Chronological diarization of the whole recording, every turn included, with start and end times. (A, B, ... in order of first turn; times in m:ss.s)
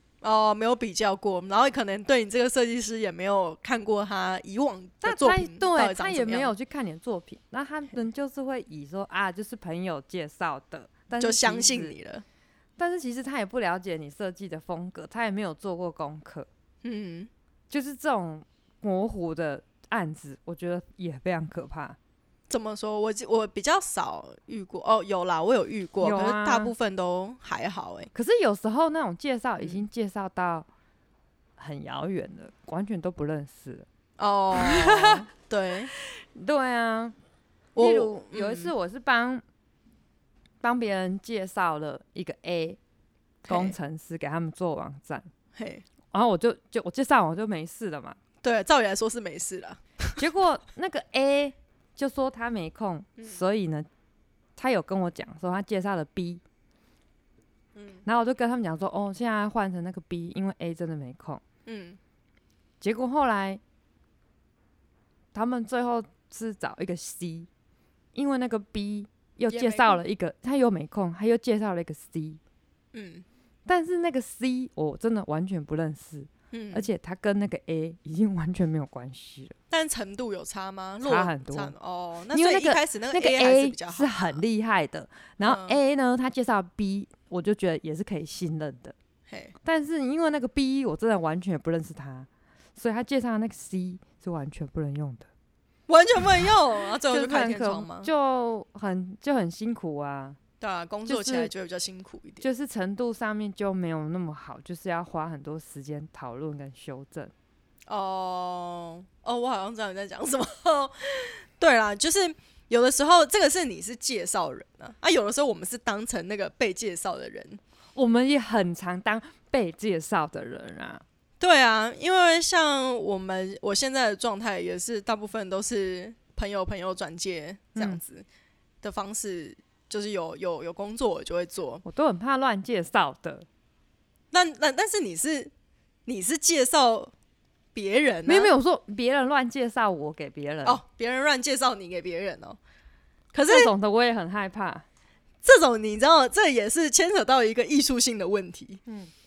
0:00.2-0:06.5 A
0:05.0-0:12.0 B
0:11.2-0:12.2 A
0:12.8-0:16.5 B
0:16.8-0:17.3 A
0:17.7-0:22.0 B
0:22.5-0:28.1 A
0:26.0-0:26.7 B
0:28.1-0:30.7 B
0:31.6-0:33.8 B
0:34.2-0:35.9 A
0:34.5-0:35.2 B
0:36.3-0:37.1 B
0:37.7-0:38.7 A
0:37.8-0:39.4 B
0:40.6-0:42.8 B
0:43.4-0:43.7 A
0:43.5-0:45.3 B
0:45.6-0:45.8 A
0:46.1-0:48.2 B
0:48.4-0:50.1 A
0:50.2-0:53.9 B
0:54.6-0:56.4 B
0:57.7-0:58.0 A
0:58.0-1:01.4 B
1:01.6-1:02.0 A
1:02.8-1:03.6 B
1:05.3-1:07.5 B
1:08.1-1:12.4 B
1:09.5-1:10.0 A
1:12.9-1:13.2 A
1:13.7-1:19.5 B
1:16.5-1:16.9 A
1:19.7-1:24.4 A
1:21.0-1:21.7 B
1:22.3-1:28.9 B
1:25.4-1:25.8 A
1:29.3-1:29.5 A
1:29.6-1:35.3 B
1:35.9-1:38.1 A
1:37.1-1:40.4 B
1:40.6-1:42.4 A
1:41.1-1:41.5 B
1:42.4-1:47.3 B
1:47.9-1:57.6 A
1:58.0-2:01.0 B
2:01.4-2:08.2 A
2:07.7-2:08.0 B
2:08.8-2:11.8 A
2:11.8-2:13.5 B
2:14.3-2:15.5 A
2:16.0-2:17.1 A
2:17.7-2:18.5 A
2:18.2-2:20.8 B
2:20.6-2:22.6 A
2:23.3-2:23.7 A
2:23.4-2:24.8 B
2:25.4-2:28.8 A